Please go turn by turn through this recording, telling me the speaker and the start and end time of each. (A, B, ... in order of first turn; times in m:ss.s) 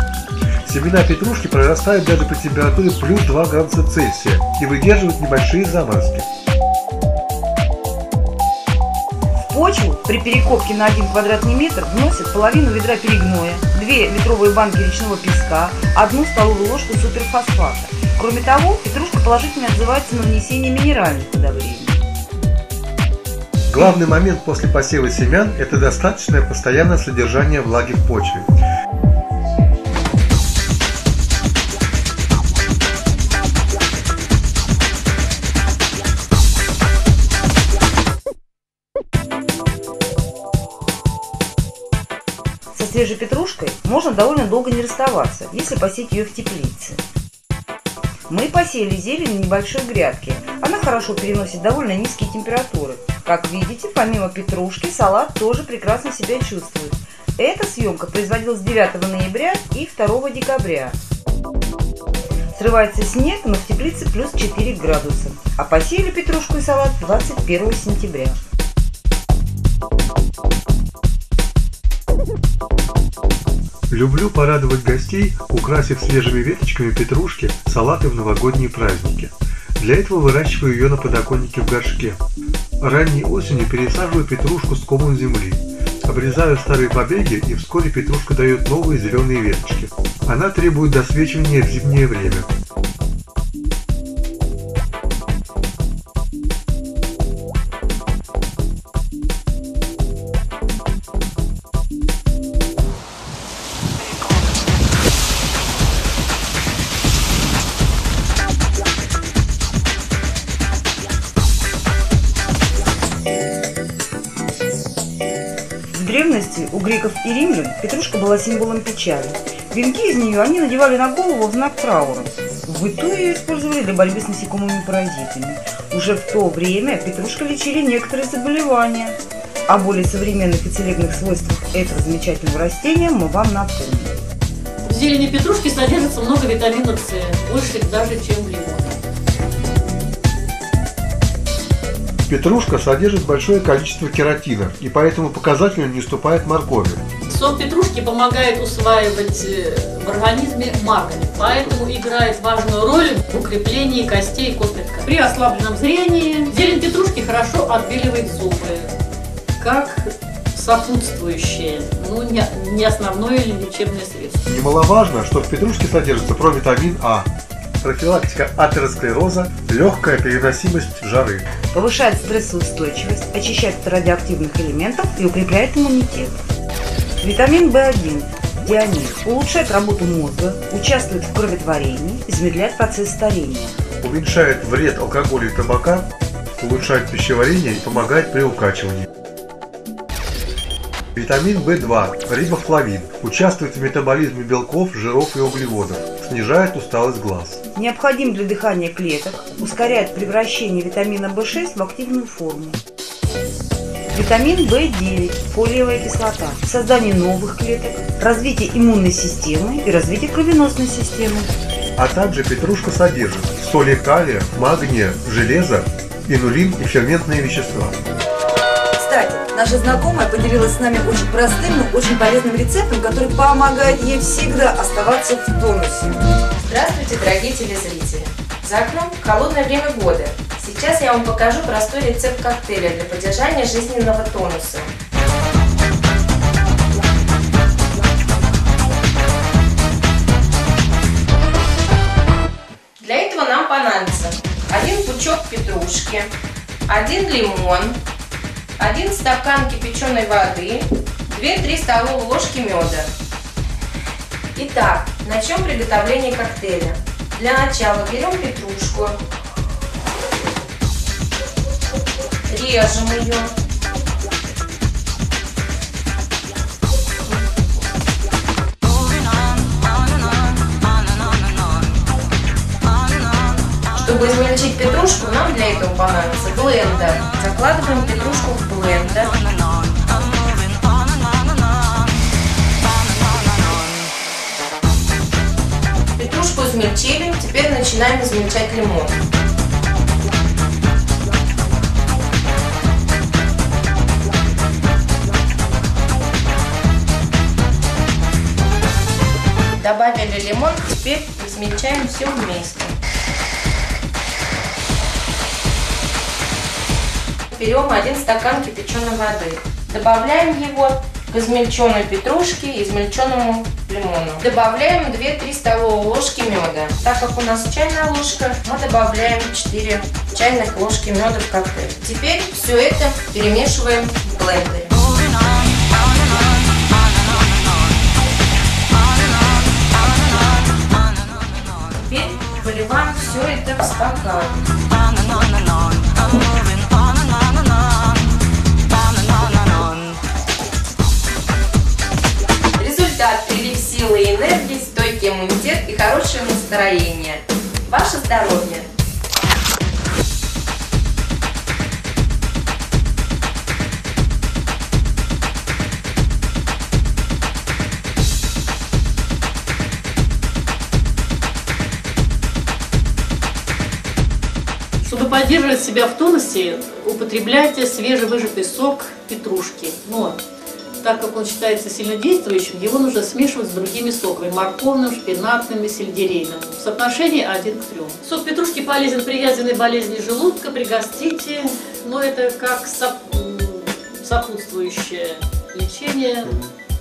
0:00.6-0:06.3 A
0:09.4-0:22.0 B
0:23.7-0:28.5 A
0:42.8-0:47.0 B
0:48.3-1:01.0 B
1:02.5-1:08.4 B
1:13.9-1:22.2 A
1:22.8-1:32.5 A
1:55.9-2:09.2 B
2:09.7-2:14.2 B
2:14.8-2:19.0 C
2:22.3-2:27.0 A
2:27.3-2:38.9 C
2:39.6-2:44.4 C
2:44.5-2:47.3 A
2:47.8-2:51.5 A
2:51.7-2:56.3 B
2:57.2-3:03.8 B
3:04.0-3:09.1 A
3:11.2-3:17.6 A
3:17.8-3:22.8 B
3:24.1-3:31.5 B
3:32.0-3:38.0 A
3:39.0-3:46.2 D
3:46.5-3:54.9 E
4:03.0-4:06.3 E
4:06.9-4:08.0 E
4:08.8-4:13.1 E
4:14.6-4:19.2 E
4:22.5-4:23.5 E
4:27.3-4:27.6 E
4:34.0-4:39.4 E
4:46.2-4:49.2 E
4:59.8-5:03.0 E
5:07.5-5:25.0 E
5:32.0-5:34.6 E
5:42.8-5:48.9 E
6:05.0-6:10.4 C
6:11.0-6:26.6 C
6:26.4-6:26.7 A